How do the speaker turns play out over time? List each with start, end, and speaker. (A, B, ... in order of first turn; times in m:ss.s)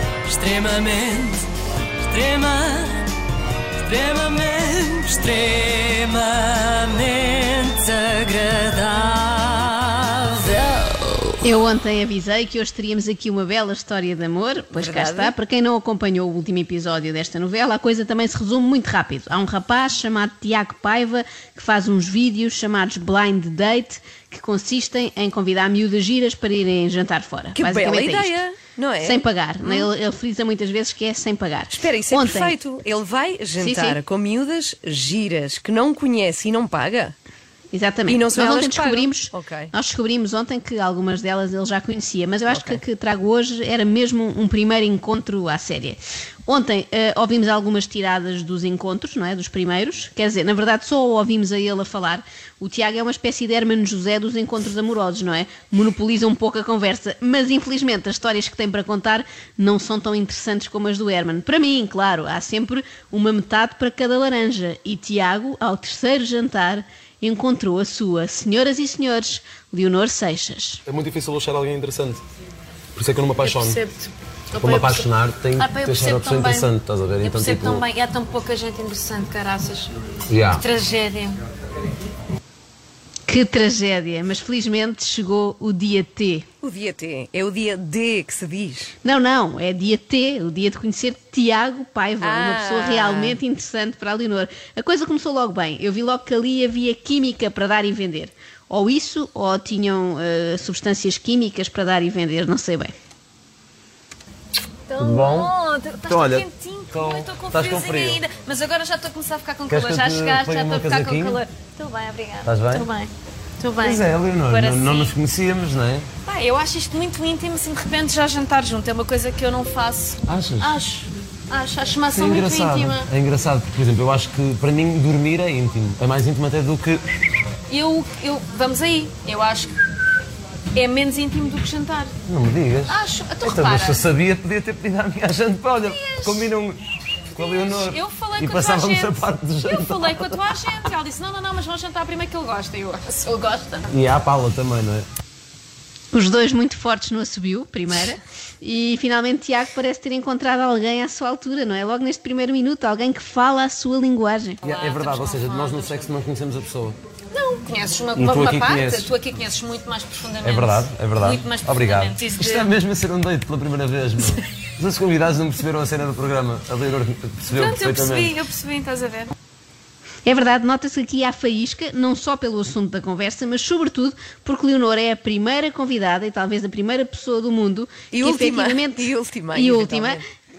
0:00.2-0:01.5 A
0:00.3-0:01.4 B
0:02.0-0:03.0 A
0:02.2-0:02.6 B
0:03.8-0:10.5 A
0:06.5-0:06.8 B
0:10.5-0:11.4 C
0:11.4-0:28.4 D
0:14.8-0:15.3 C
0:27.6-0:29.9 C
0:29.0-0:32.6 D
0:31.7-0:37.2 C
0:33.6-0:34.0 D
0:37.7-1:10.8 D
0:38.1-0:39.7 C
0:42.5-0:42.8 C
1:10.9-1:12.2 E
1:13.0-1:13.8 E
1:13.4-1:19.9 B
1:14.6-1:17.8 E
1:20.3-1:20.6 E
1:20.5-1:21.4 B
1:23.3-1:26.5 D
1:26.6-1:28.9 C
1:29.0-1:42.9 D
1:32.2-1:33.4 C
1:44.9-1:55.2 B
1:45.0-1:45.5 E
1:46.1-1:48.2 E
1:49.7-1:51.4 E
1:52.4-1:52.9 E
1:53.8-1:56.1 E
1:56.2-2:03.1 B
2:00.3-2:00.8 E
2:02.1-2:07.1 E
2:07.7-2:09.8 B
2:10.7-2:12.1 B
2:12.2-2:20.6 E
2:12.9-2:14.0 B
2:15.8-2:16.5 B
2:17.3-2:23.9 B
2:23.9-2:25.1 E
2:26.1-2:34.6 D
2:34.6-2:36.1 B
2:34.6-2:37.0 E
2:37.3-2:42.7 B
2:38.2-2:39.1 E
2:40.4-2:48.4 E
2:47.5-2:49.3 B
2:50.2-3:00.2 D
2:58.1-3:00.2 C